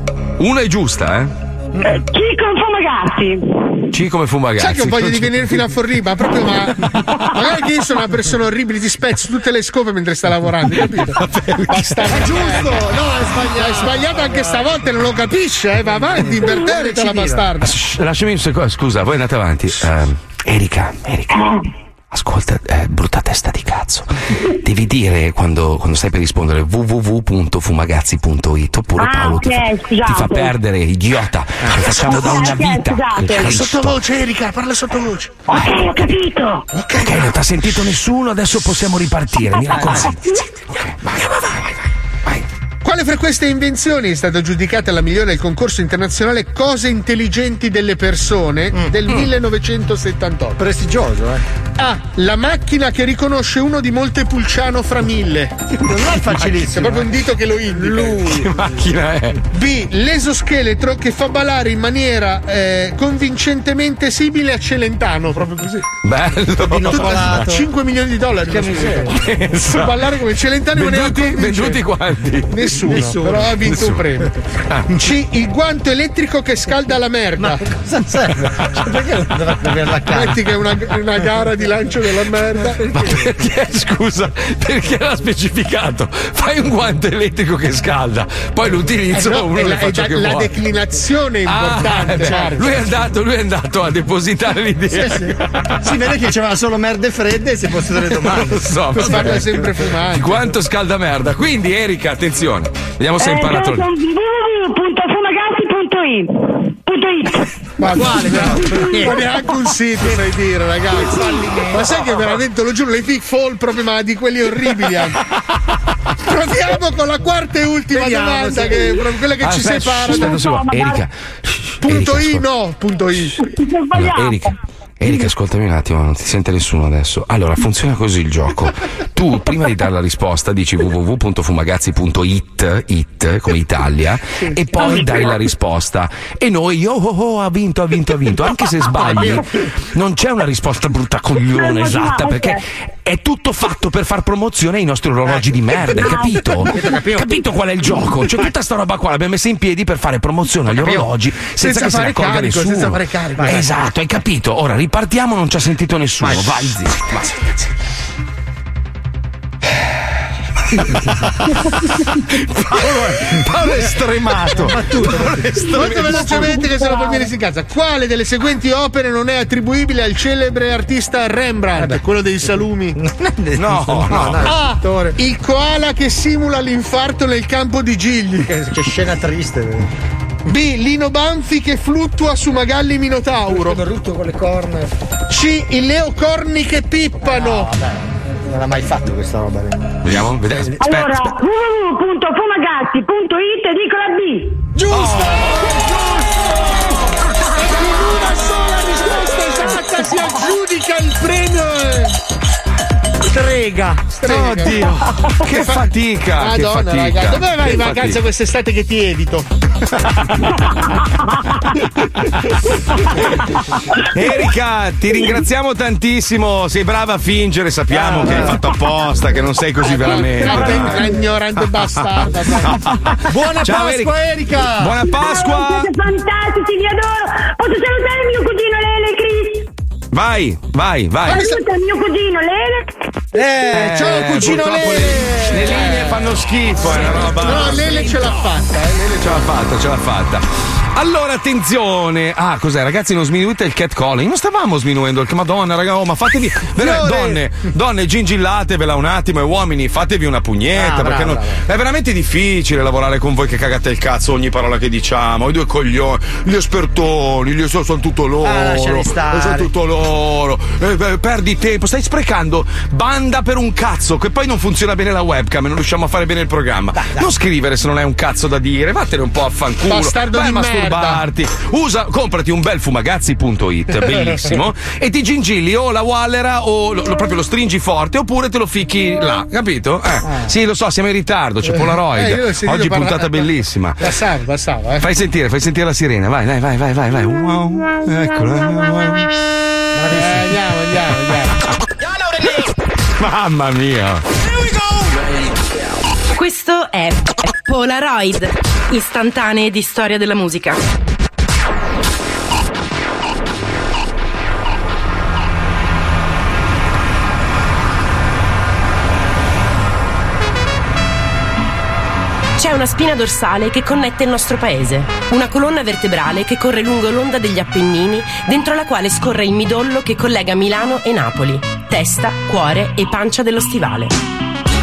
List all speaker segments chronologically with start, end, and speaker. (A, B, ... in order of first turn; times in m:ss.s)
0:00.4-0:01.3 A
0:01.8-0:03.8 B
0:03.9-0:05.5 A
0:04.6-0:17.7 C
0:11.0-0:12.0 A
0:12.1-0:14.7 D
0:16.3-0:17.4 D
0:17.6-0:21.5 A
0:22.1-0:34.0 A
0:29.0-0:30.5 B
0:32.0-0:33.6 B
0:33.4-0:35.3 C
0:35.5-0:36.6 B
0:36.8-0:37.3 C
0:37.0-0:41.7 A
0:39.7-0:40.1 D
0:42.8-0:50.6 C
0:50.6-0:51.4 D
0:51.8-0:55.7 C
0:55.8-0:57.1 D
0:56.3-0:58.3 C
0:57.7-0:58.3 D
0:58.2-0:59.4 A
0:59.5-1:05.9 C
1:06.0-1:07.4 A
1:06.6-1:07.6 D
1:06.9-1:09.0 C
1:08.4-1:09.1 D
1:09.1-1:09.9 A
1:09.7-1:11.8 C
1:10.7-1:12.7 A
1:12.5-1:17.6 C
1:12.8-1:13.6 D
1:13.7-1:14.0 A
1:17.4-1:20.4 D
1:20.1-1:22.8 C
1:22.8-1:23.2 D
1:22.9-1:30.5 A
1:29.1-1:32.8 C
1:31.4-1:35.8 A
1:32.0-1:32.7 D
1:34.9-1:39.4 D
1:38.1-1:43.9 A
1:39.0-1:40.5 C
1:43.2-1:47.5 B
1:47.8-1:49.2 D
1:48.0-1:55.2 C
1:48.8-1:49.2 B
1:50.9-1:52.2 D
1:56.3-2:00.4 C
1:57.9-1:58.9 D
1:59.4-2:02.4 A
2:00.1-2:01.0 B
2:01.8-2:03.4 C
2:03.4-2:04.5 B
2:03.9-2:37.5 A
2:19.0-2:19.4 D
2:21.5-2:22.6 B
2:25.3-2:27.3 D
2:30.7-2:31.1 D
2:31.6-2:33.5 C
2:33.4-2:33.7 D
2:36.2-2:36.6 D
2:42.3-2:46.3 A
2:43.5-2:43.9 D
2:44.5-2:46.5 D
2:45.7-2:53.0 C
2:46.5-2:47.3 B
2:51.8-2:52.0 D
2:52.9-2:55.2 D
2:53.6-2:54.5 A
2:54.4-2:58.5 C
2:58.4-2:59.9 D
3:00.4-3:03.8 C
3:03.5-3:04.9 D
3:05.3-3:07.7 C
3:07.2-3:10.3 D
3:10.0-3:11.4 A
3:10.8-3:14.6 B
3:14.8-3:15.6 D
3:14.9-3:15.7 A
3:17.6-3:22.1 C
3:23.2-3:24.0 D
3:24.1-3:24.8 C
3:24.3-3:28.2 A
3:25.5-3:25.9 C
3:26.4-3:29.5 C
3:32.2-3:32.6 A
3:34.0-3:41.0 A
3:37.9-3:38.6 D
3:39.9-3:43.0 C
3:40.4-3:41.0 D
3:41.6-3:44.1 A
3:43.3-3:45.0 D
3:44.8-3:45.9 A
3:45.0-3:49.7 B
3:50.1-3:51.4 A
3:51.3-3:52.9 B
3:53.3-3:56.0 D
3:53.7-3:58.3 A
3:55.6-3:56.1 C
3:57.3-3:59.4 C
3:59.2-4:44.1 A
4:06.8-4:07.4 D
4:10.7-4:11.6 D
4:18.4-4:19.7 D
4:26.9-4:27.3 D
4:29.9-4:31.2 C
4:40.2-4:40.5 D
4:42.0-4:43.5 C
4:44.0-4:45.0 C
4:45.0-4:49.3 A
4:49.9-4:50.5 D
4:50.1-4:51.6 C
4:53.2-4:54.2 A
4:56.3-5:00.8 E
5:12.6-5:24.1 E